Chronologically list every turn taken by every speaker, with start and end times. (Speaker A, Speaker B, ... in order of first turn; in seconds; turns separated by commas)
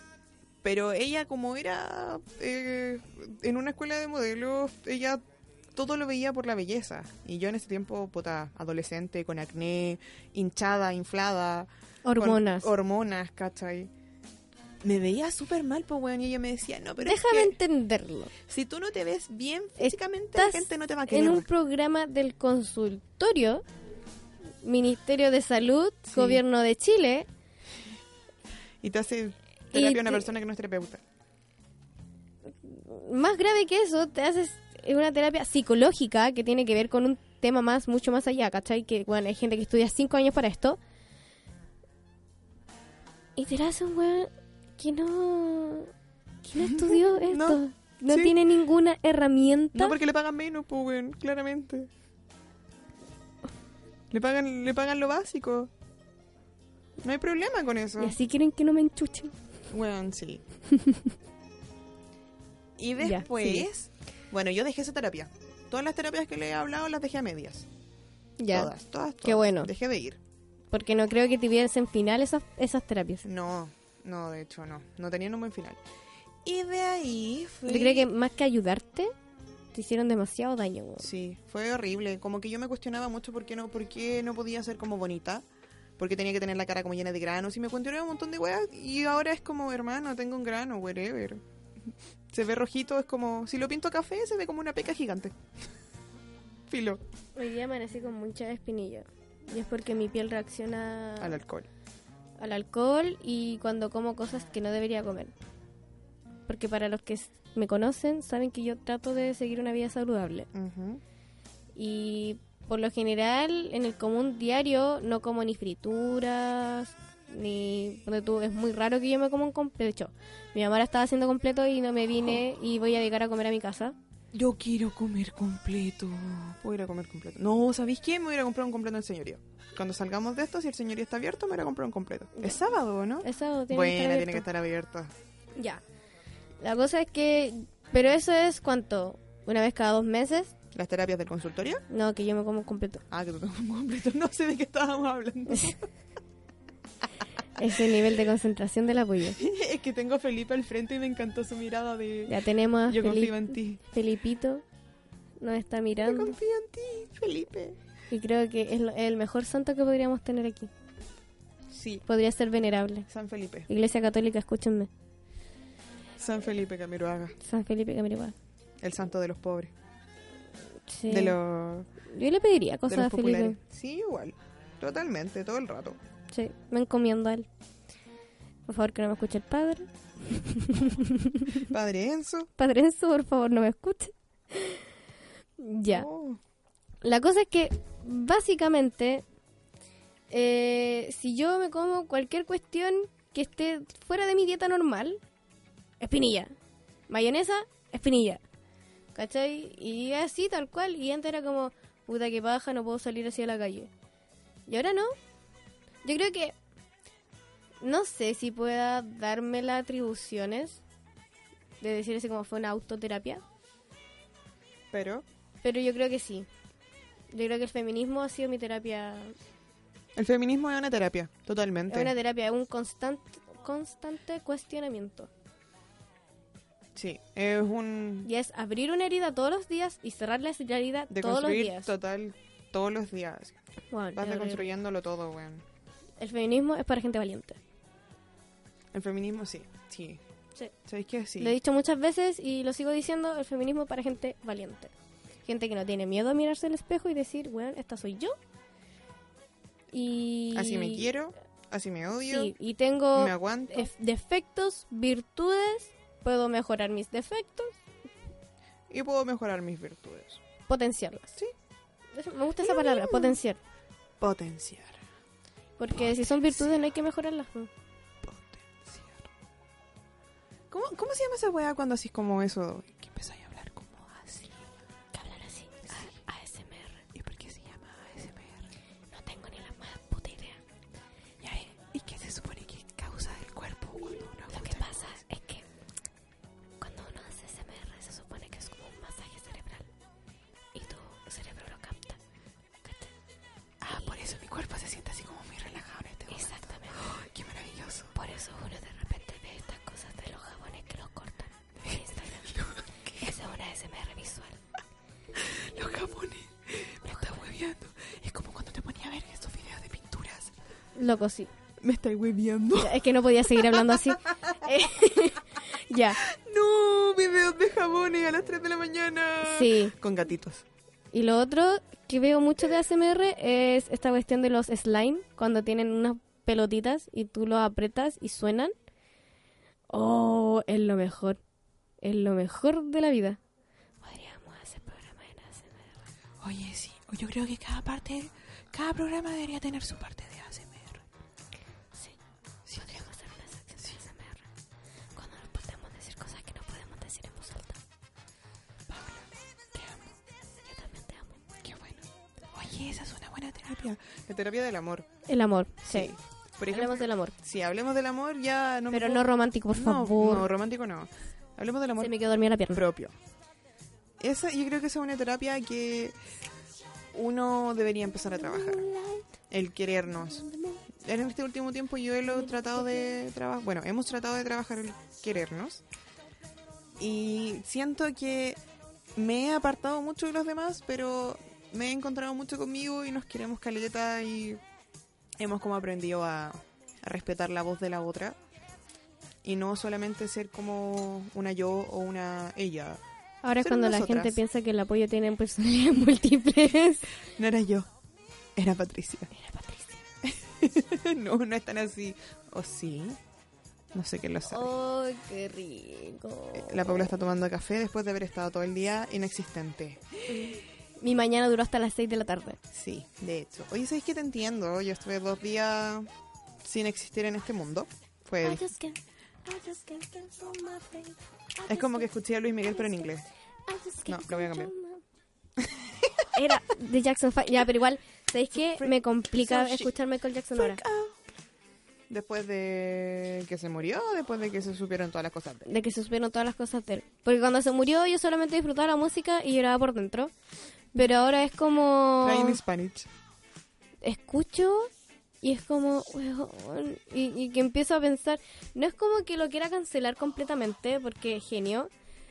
Speaker A: 0.6-5.2, Speaker A: 5.7-13.9, Speaker B: 12.1-12.7, Speaker A: 14.8-17.6, Speaker B: 17.0-18.3, Speaker A: 18.4-21.5, Speaker B: 19.8-23.6, Speaker B: 24.6-27.3, Speaker A: 26.1-26.4, Speaker A: 28.8-31.0, Speaker B: 29.7-30.3, Speaker B: 32.6-40.8, Speaker B: 43.4-45.9, Speaker B: 46.4-50.0, Speaker A: 46.6-48.4, Speaker A: 49.7-51.9, Speaker A: 54.1-55.7, Speaker A: 57.0-58.2, Speaker B: 58.0-59.3, Speaker A: 59.7-60.4, Speaker B: 60.8-61.0, Speaker A: 62.8-67.7, Speaker B: 63.0-63.7, Speaker B: 68.4-68.7, Speaker A: 68.5-70.2, Speaker B: 69.2-69.7, Speaker B: 70.7-73.2, Speaker A: 73.2-75.8, Speaker A: 76.4-78.1, Speaker B: 77.7-79.1, Speaker B: 79.7-81.1, Speaker A: 81.0-85.5, Speaker A: 86.0-91.4, Speaker A: 92.3-95.4, Speaker A: 96.7-97.0, Speaker B: 97.4-101.4, Speaker A: 101.2-101.7, Speaker B: 102.4-105.3, Speaker B: 106.5-110.5, Speaker A: 110.5-111.0, Speaker B: 111.8-124.0, Speaker A: 124.3-135.1, Speaker B: 133.2-134.5, Speaker B: 135.6-135.8, Speaker B: 136.6-140.5, Speaker A: 140.7-141.8, Speaker B: 141.9-143.0, Speaker A: 143.1-145.9, Speaker B: 145.5-145.8, Speaker B: 147.6-149.4, Speaker A: 149.3-152.4, Speaker B: 152.3-154.6, Speaker A: 152.9-153.8, Speaker B: 155.4-156.3, Speaker A: 156.0-157.8, Speaker B: 158.1-160.7, Speaker A: 161.7-162.1, Speaker B: 162.1-163.1, Speaker A: 163.1-163.7, Speaker B: 163.7-164.9, Speaker A: 166.2-167.4, Speaker B: 167.4-168.3, Speaker A: 168.8-169.7, Speaker B: 170.9-171.4, Speaker A: 171.1-171.9, Speaker B: 172.1-173.6, Speaker A: 172.9-176.0, Speaker B: 176.3-177.5, Speaker B: 178.7-181.6, Speaker A: 181.6-182.5, Speaker B: 182.6-184.9, Speaker B: 185.6-186.1, Speaker A: 185.9-186.4, Speaker B: 187.0-189.2, Speaker B: 190.3-195.2, Speaker B: 196.0-196.5, Speaker B: 197.1-198.4, Speaker B: 199.1-203.9, Speaker B: 204.7-205.1, Speaker B: 206.0-206.5, Speaker B: 207.8-210.8, Speaker B: 211.8-213.4, Speaker A: 214.9-215.2, Speaker B: 215.6-216.5, Speaker B: 217.3-219.4, Speaker A: 220.2-222.2, Speaker B: 221.9-225.3, Speaker A: 226.9-228.3, Speaker B: 228.2-231.9, Speaker A: 231.1-233.6, Speaker B: 233.9-234.7, Speaker A: 234.2-235.7, Speaker B: 236.2-237.6, Speaker A: 238.9-240.2, Speaker A: 240.8-241.6, Speaker B: 241.4-244.9, Speaker B: 245.5-248.3, Speaker B: 249.9-251.1, Speaker A: 250.5-252.5, Speaker B: 252.3-257.8, Speaker A: 253.1-253.9, Speaker A: 258.9-260.4, Speaker B: 260.7-261.3, Speaker B: 262.1-263.6, Speaker A: 262.6-263.4, Speaker A: 264.2-265.0, Speaker B: 265.8-267.7, Speaker A: 265.9-266.8, Speaker A: 268.2-269.3, Speaker A: 270.7-274.7, Speaker B: 275.1-277.0, Speaker A: 275.9-276.2, Speaker A: 277.1-278.7, Speaker B: 279.1-280.6, Speaker A: 281.4-285.2, Speaker B: 284.5-285.6, Speaker B: 286.8-289.9, Speaker B: 290.7-292.2, Speaker B: 292.8-293.1, Speaker A: 293.8-298.1, Speaker B: 296.3-297.0, Speaker B: 298.1-302.5, Speaker A: 301.8-303.3, Speaker B: 303.2-304.6, Speaker A: 305.3-310.6, Speaker B: 310.9-311.5, Speaker A: 311.8-314.4, Speaker B: 312.8-316.2, Speaker A: 316.2-320.6, Speaker B: 319.4-319.9, Speaker B: 321.1-328.7, Speaker B: 329.9-331.4, Speaker B: 332.0-333.4, Speaker B: 334.0-336.0, Speaker A: 336.4-341.0, Speaker A: 342.7-343.1, Speaker B: 342.8-344.4, Speaker B: 345.1-347.8, Speaker A: 348.9-350.2, Speaker B: 350.7-351.4, Speaker A: 351.6-355.1, Speaker B: 355.3-356.1, Speaker A: 355.9-362.1, Speaker B: 356.7-357.4, Speaker B: 358.9-360.5, Speaker B: 362.0-362.8, Speaker A: 362.7-363.1, Speaker A: 364.2-366.2, Speaker A: 367.1-368.9, Speaker B: 368.4-369.3, Speaker A: 369.5-375.8, Speaker B: 370.4-370.8, Speaker B: 372.4-373.0, Speaker A: 377.0-378.6, Speaker A: 379.1-384.6, Speaker A: 385.4-388.4, Speaker A: 389.4-393.0, Speaker B: 393.4-397.2, Speaker A: 393.6-394.4, Speaker A: 397.3-397.9, Speaker A: 398.6-399.3, Speaker B: 399.3-400.0, Speaker A: 400.2-403.2, Speaker A: 403.9-404.7, Speaker B: 404.5-407.2, Speaker A: 406.5-410.5, Speaker B: 410.3-412.6, Speaker A: 412.7-416.1, Speaker A: 416.6-418.7, Speaker B: 418.4-422.1, Speaker A: 421.7-423.3, Speaker B: 423.7-425.0, Speaker A: 424.1-424.7, Speaker A: 425.6-426.3, Speaker B: 426.3-430.8, Speaker A: 428.5-429.9, Speaker A: 430.6-431.2, Speaker A: 432.1-435.7, Speaker B: 435.7-440.3, Speaker B: 440.9-442.6, Speaker A: 442.2-443.1, Speaker B: 444.0-444.9, Speaker B: 445.4-451.9